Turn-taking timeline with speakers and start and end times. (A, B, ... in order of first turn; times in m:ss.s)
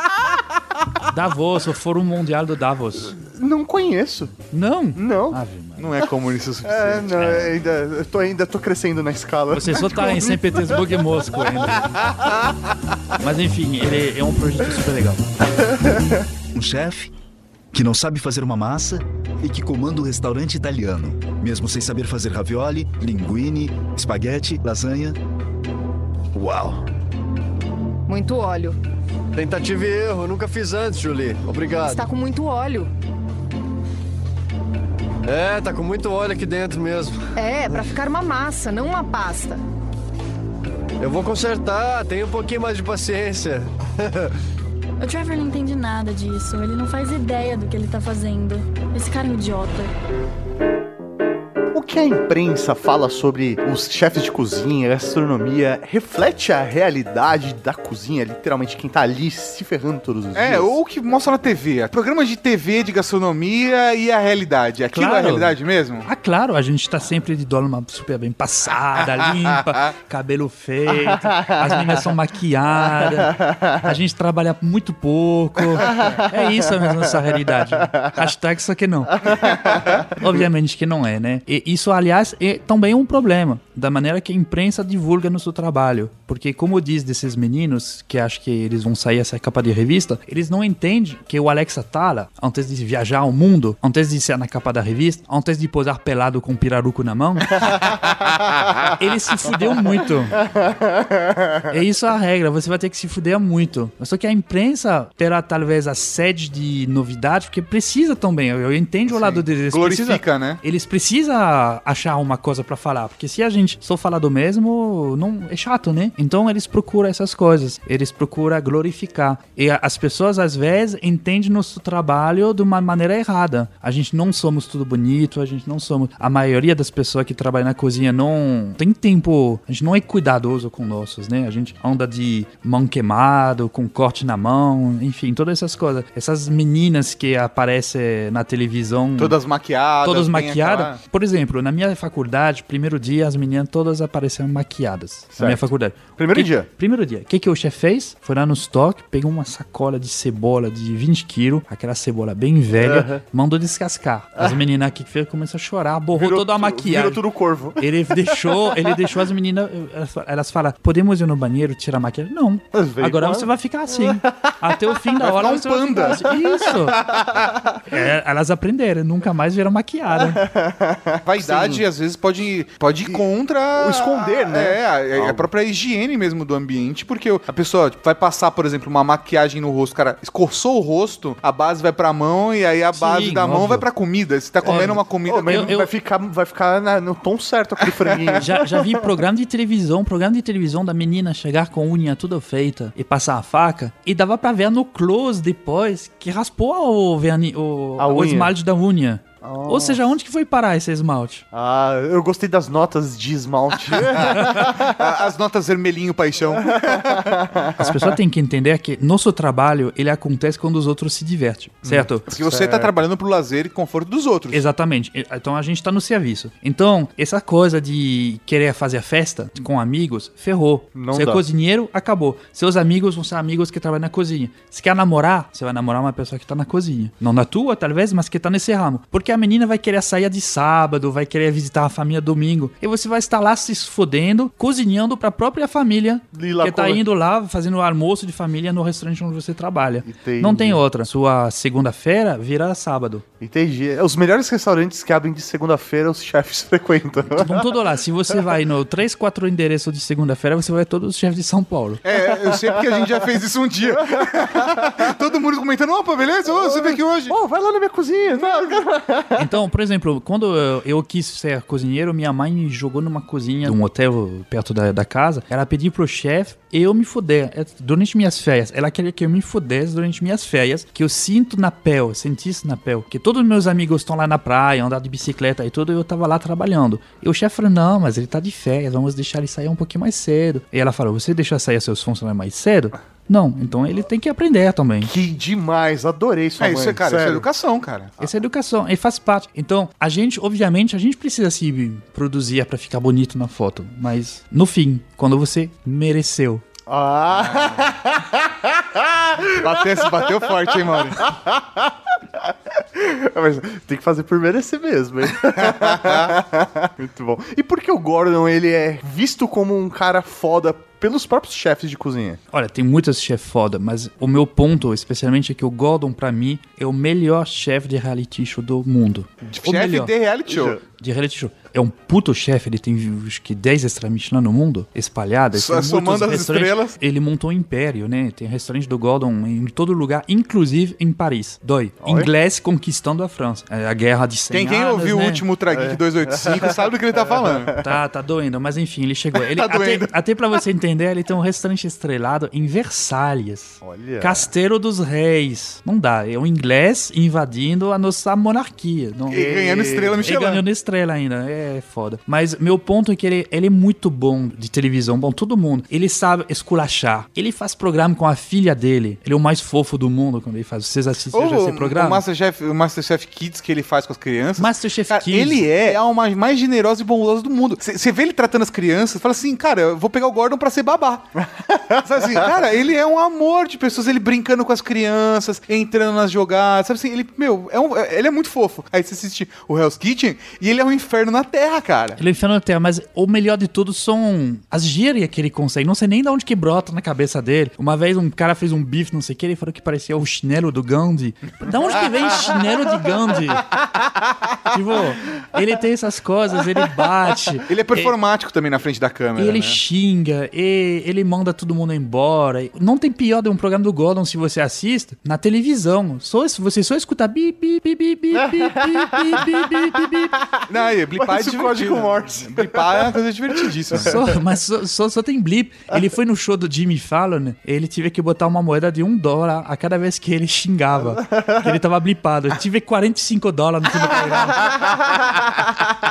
0:01.1-0:03.2 A
0:03.2-0:04.3 B
0:04.5-0:06.0 A
0:05.0-0:05.4 B
0:05.8-0:07.5 C
0:06.6-0:10.9 B
0:09.5-0:11.9 A
0:13.2-0:15.3 A
0:16.5-0:17.1 D
0:17.7-0:25.2 D
0:26.4-0:26.8 E
0:28.1-0:28.8 F
0:29.3-0:32.0 E
0:31.8-0:32.9 F
0:35.3-0:37.3 E
0:37.4-0:39.6 F
0:41.0-0:44.3 E
0:45.0-0:49.9 G
0:51.7-1:00.7 B
1:00.4-1:06.1 C
1:04.9-1:37.9 A
1:10.9-1:11.9 B
1:13.0-1:13.9 B
1:15.8-1:17.0 B
1:19.2-1:20.0 B
1:39.0-1:40.4 A
1:40.5-1:41.6 B
1:41.7-2:19.4 A
1:49.1-1:50.6 C
2:19.2-2:21.0 C
2:20.0-2:37.2 A
2:25.4-2:25.6 B
2:26.2-2:26.7 B
2:32.8-2:33.2 B
2:36.1-2:37.8 B
2:37.8-2:47.0 A
2:38.3-2:38.9 B
2:42.7-2:44.5 B
2:45.2-2:46.3 C
2:46.9-2:47.6 B
2:47.9-2:50.4 A
2:50.2-2:51.8 B
2:51.3-3:05.7 C
2:53.1-2:55.5 B
3:03.0-3:03.8 A
3:04.6-3:09.0 B
3:04.6-3:05.9 A
3:08.4-3:21.4 A
3:18.0-3:18.5 B
3:19.4-3:20.0 B
3:21.5-3:24.9 B
3:24.2-3:27.4 C
3:26.7-3:28.1 B
3:27.8-3:32.3 A
3:31.8-3:32.9 B
3:32.3-3:34.6 C
3:34.5-4:03.2 A
3:41.0-3:41.4 B
3:56.3-3:57.0 B
4:00.0-4:00.8 B
4:03.4-4:07.7 B
4:07.3-4:12.0 A
4:12.0-4:17.4 C
4:12.1-4:13.2 B
4:13.9-4:15.1 B
4:16.6-4:19.5 B
4:19.4-4:45.1 A
4:45.0-4:47.5 B
4:46.6-4:48.1 C
4:48.2-4:56.6 A
4:56.9-5:02.2 B
4:57.4-4:57.9 C
4:59.6-5:01.3 C
5:02.9-5:12.4 B
5:05.7-5:06.3 C
5:12.5-5:20.1 A
5:19.4-5:20.8 C
5:20.5-5:20.8 B
5:21.0-5:35.4 A
5:25.5-5:27.0 C
5:32.0-5:32.3 B
5:34.5-5:37.8 C
5:35.7-5:37.8 B
5:37.8-5:49.6 A
5:39.5-5:40.1 C
5:43.8-5:44.5 B
5:49.3-5:50.2 B
5:49.3-5:50.6 C
5:50.2-6:02.2 A
6:01.3-6:11.4 C
6:04.6-6:05.7 A
6:11.4-6:12.0 B
6:12.0-6:22.2 C
6:22.2-6:33.7 A
6:34.7-6:38.1 A
6:37.7-6:39.8 C
6:39.4-6:50.4 A
6:48.4-6:53.2 B
6:50.7-6:54.2 C
6:54.0-7:04.8 A
7:01.2-7:01.7 B
7:04.6-7:05.3 B